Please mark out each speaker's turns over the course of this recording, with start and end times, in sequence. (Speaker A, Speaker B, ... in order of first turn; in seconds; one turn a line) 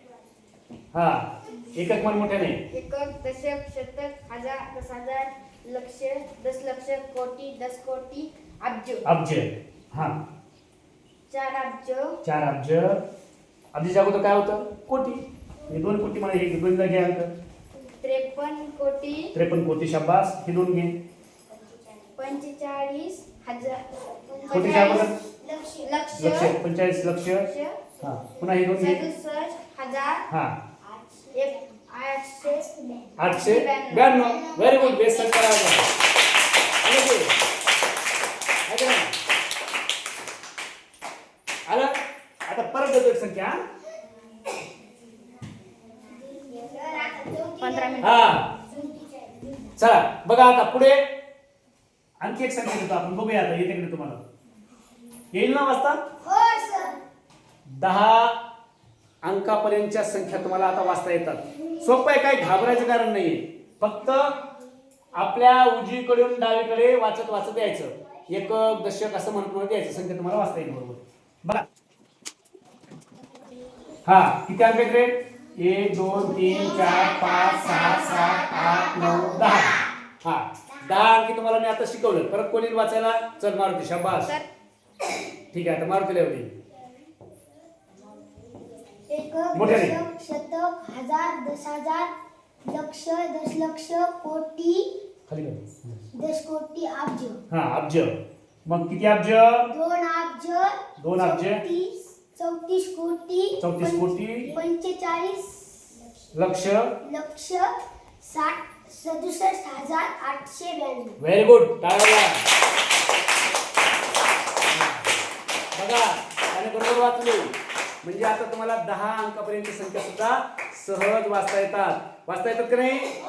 Speaker A: 0.9-2.6
Speaker B: 2.7-9.0
Speaker A: 9.0-10.2
Speaker B: 11.3-12.2
Speaker A: 12.2-13.0
Speaker A: 13.7-17.3
Speaker B: 18.0-19.3
Speaker A: 19.3-20.9
Speaker B: 22.2-23.8
Speaker C: 24.3-25.9
Speaker B: 24.4-25.1
Speaker A: 24.5-25.1
Speaker B: 25.8-26.5
Speaker A: 26.1-27.5
Speaker B: 27.3-27.8
Speaker A: 28.0-29.0
Speaker B: 28.7-30.2
Speaker A: 30.3-30.6
Speaker C: 30.9-31.6
Speaker B: 31.3-32.6
Speaker C: 32.4-33.1
Speaker A: 33.2-35.9
Speaker B: 33.3-34.1
Speaker A: 36.8-37.3
Speaker A: 38.7-39.1
Speaker A: 41.6-43.6
Speaker C: 45.9-49.7
Speaker B: 47.6-48.4
Speaker A: 48.0-48.5
Speaker A: 49.8-51.0
Speaker A: 52.2-54.2
Speaker A: 55.3-56.0
Speaker C: 56.2-57.0
Speaker A: 57.7-58.4
Speaker A: 59.2-64.3
Speaker A: 65.1-71.6
Speaker A: 74.0-84.3
Speaker A: 85.5-86.5
Speaker C: 89.0-92.1
Speaker A: 89.5-90.0
Speaker C: 92.7-94.9
Speaker A: 95.3-96.0
Speaker C: 96.1-97.4
Speaker A: 97.5-99.7
Speaker C: 99.7-106.0
Speaker A: 101.0-101.6
Speaker A: 103.6-104.5
Speaker A: 106.3-106.9
Speaker C: 107.0-111.2
Speaker A: 111.2-112.4
Speaker A: 114.6-115.1
Speaker A: 115.7-123.1